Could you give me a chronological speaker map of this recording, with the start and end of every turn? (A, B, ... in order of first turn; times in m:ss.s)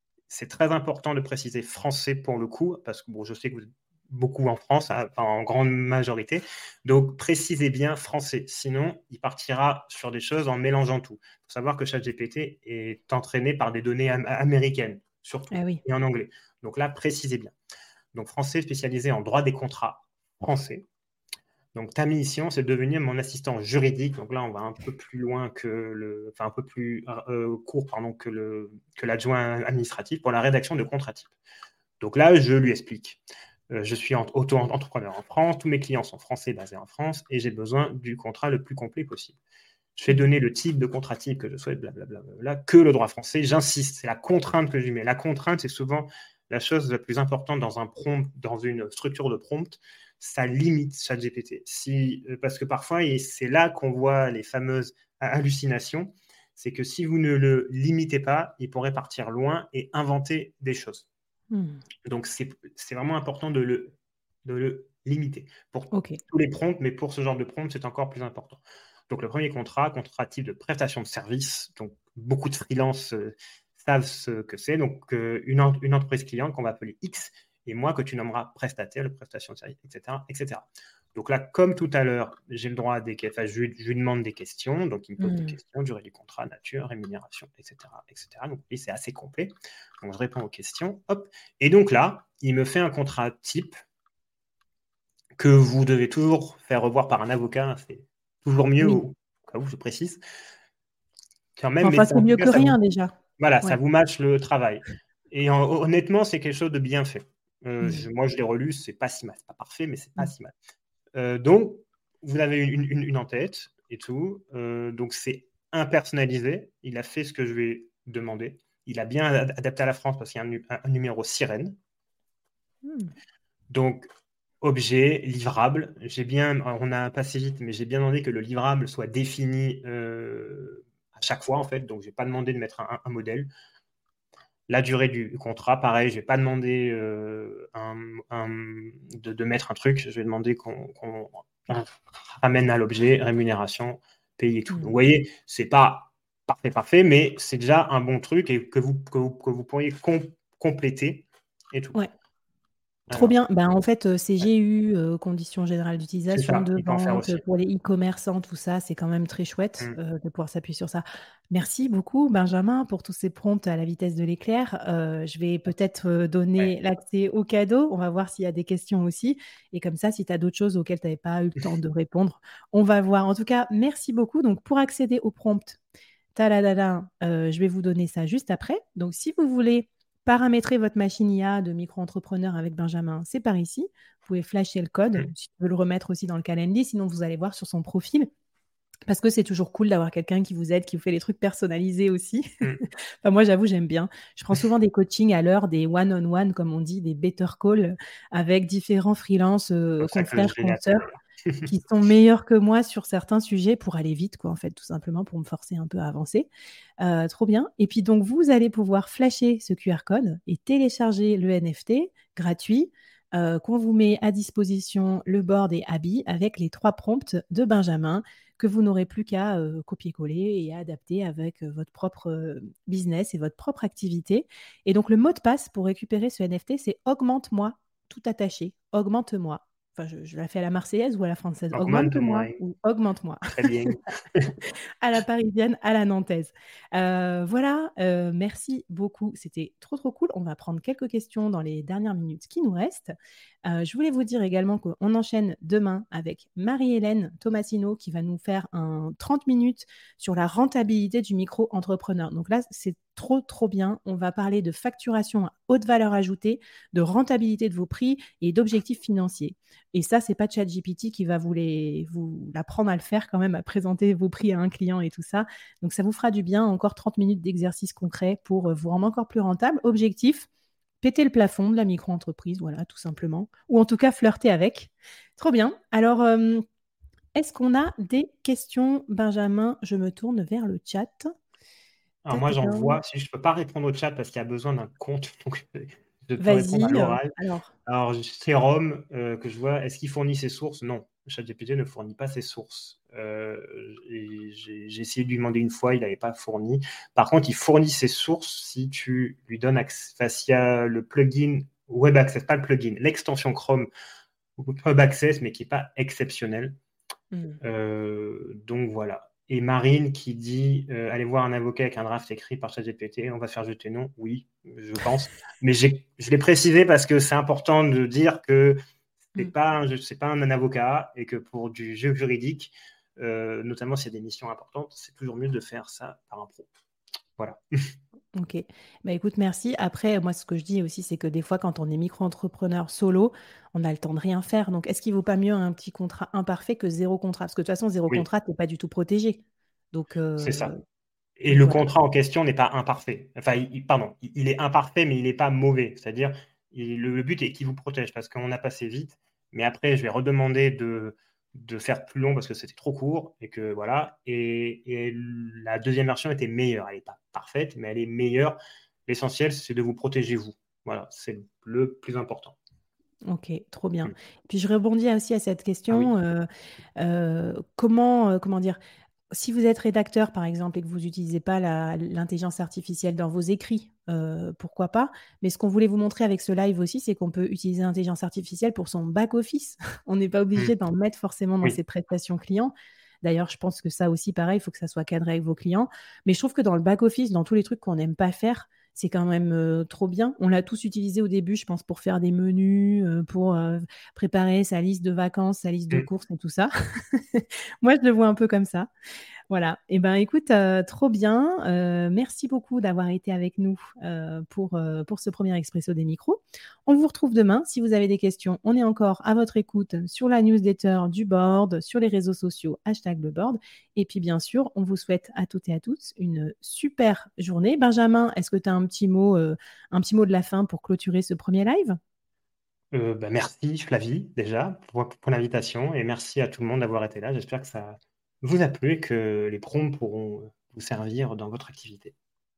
0:00.3-0:17.5 A
0:15.5-0:15.8 B
0:18.1-0:20.8 A
0:21.7-0:31.3 A
0:32.0-0:39.4 A
0:40.0-1:01.1 A
1:01.5-1:01.8 B
1:02.0-1:03.9 A
1:04.4-1:33.8 A
1:05.9-1:06.2 B
1:25.2-1:25.6 B
1:35.4-1:40.2 A
1:41.6-1:42.8 A
1:41.8-1:43.8 B
1:43.4-1:50.5 A
1:51.2-2:01.8 A
2:02.9-2:03.1 B
2:03.7-2:04.1 A
2:04.6-2:13.5 A
2:14.7-2:32.0 A
2:24.7-2:25.0 B
2:33.1-2:33.3 A
2:33.1-2:55.8 B
2:36.3-2:37.4 A
2:56.4-3:08.3 B
3:09.1-3:21.1 B
3:20.0-3:21.7 A
3:21.7-3:26.5 B
3:27.0-3:53.7 B
3:51.7-3:52.6 A
3:53.6-3:54.6 A
3:54.6-4:03.1 B
4:03.7-4:30.5 B
4:31.0-4:36.6 B
4:37.4-4:41.3 B
4:42.2-4:47.3 A
4:42.3-4:43.0 B
4:46.4-4:47.7 B
4:47.9-5:03.9 A
5:04.6-5:06.8 A
5:07.3-5:07.6 B
5:07.6-5:18.8 A
5:19.4-5:26.7 A
5:28.4-5:40.8 B
5:40.4-5:40.7 A
5:41.4-6:02.6 A
5:41.5-5:41.9 B
6:03.3-6:06.5 B
6:07.0-6:08.8 B
6:09.3-6:38.9 B
6:39.5-7:02.0 B
7:02.9-7:12.1 A